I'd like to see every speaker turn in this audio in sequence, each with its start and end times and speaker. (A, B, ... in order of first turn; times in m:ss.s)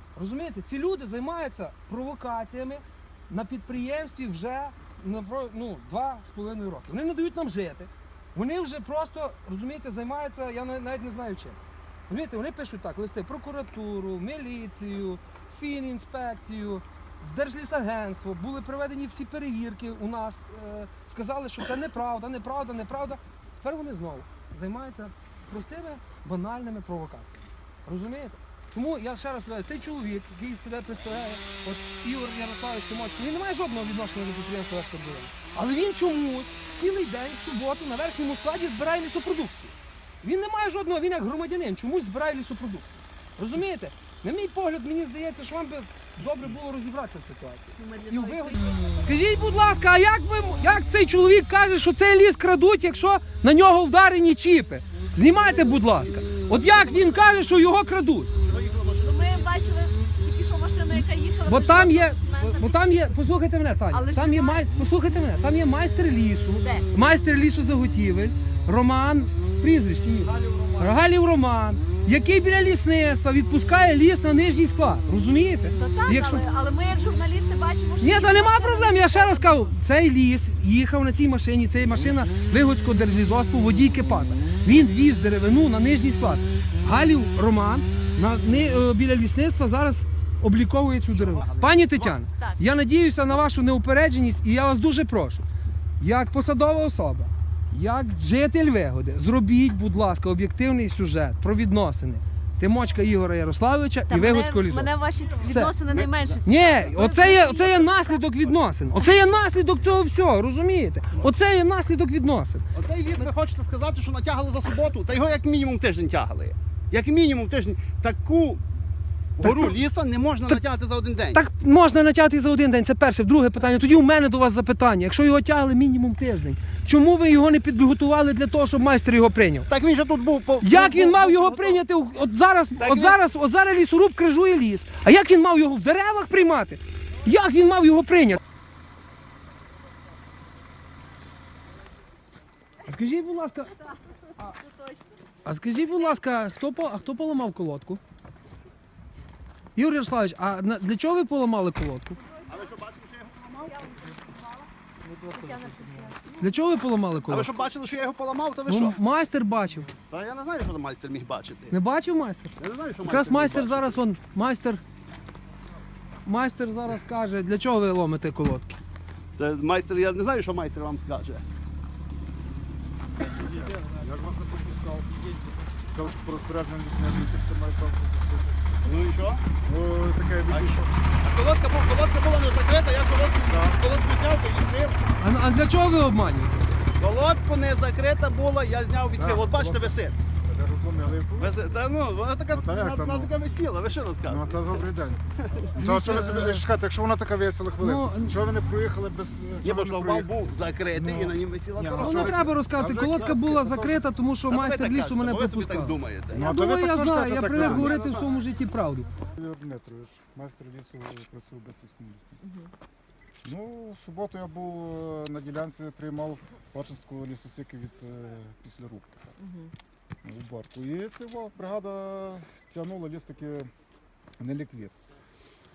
0:00.1-0:58.3 A
0:47.8-0:49.0 B
0:56.4-0:57.3 C
0:58.4-0:59.7 C
0:59.0-1:03.2 B
1:01.4-1:16.4 A
1:03.9-1:04.7 B
1:06.6-1:06.9 B
1:10.2-1:11.0 C
1:15.7-1:19.7 B
1:18.0-1:35.4 A
1:31.1-1:32.2 C
1:36.0-1:45.7 A
1:44.1-1:48.2 B
1:45.3-1:46.4 C
1:46.4-1:52.6 A
1:49.0-1:49.2 B
1:52.7-1:58.6 C
1:59.4-2:01.4 C
1:59.4-1:59.8 A
2:01.3-2:09.7 A
2:09.7-2:11.8 C
2:10.6-2:18.4 A
2:12.8-2:13.2 C
2:22.8-2:23.8 A
2:24.1-2:25.3 B
2:25.4-2:28.0 A
2:25.8-2:26.2 B
2:29.8-2:32.2 A
2:32.5-2:33.9 C
2:33.7-2:36.5 B
2:36.4-2:37.5 A
2:37.3-2:39.0 C
2:38.6-2:39.9 A
2:40.1-2:41.8 C
2:41.7-2:44.8 A
2:42.6-2:44.0 C
2:46.2-2:48.8 A
2:49.4-2:51.4 C
2:53.2-2:55.3 D
2:55.8-2:58.7 D
2:58.8-2:59.5 C
2:59.6-3:00.9 D
3:00.5-3:05.0 C
3:03.4-3:03.8 D
3:05.2-3:06.6 A
3:07.0-3:10.2 C
3:09.2-3:11.6 D
3:11.4-3:14.6 C
3:12.5-3:13.3 D
3:14.2-3:15.2 D
3:15.7-3:16.6 A
3:15.8-3:20.4 D
3:17.8-3:18.4 A
3:19.6-3:23.4 C
3:20.9-3:24.1 D
3:21.9-3:29.1 A
3:24.5-3:26.5 C
3:26.3-3:28.2 D
3:27.5-3:28.4 C
3:29.3-3:32.4 D
3:32.4-3:32.7 B
3:33.4-3:39.4 D
3:39.4-3:39.7 B
3:40.2-3:43.7 D
3:44.4-3:44.9 D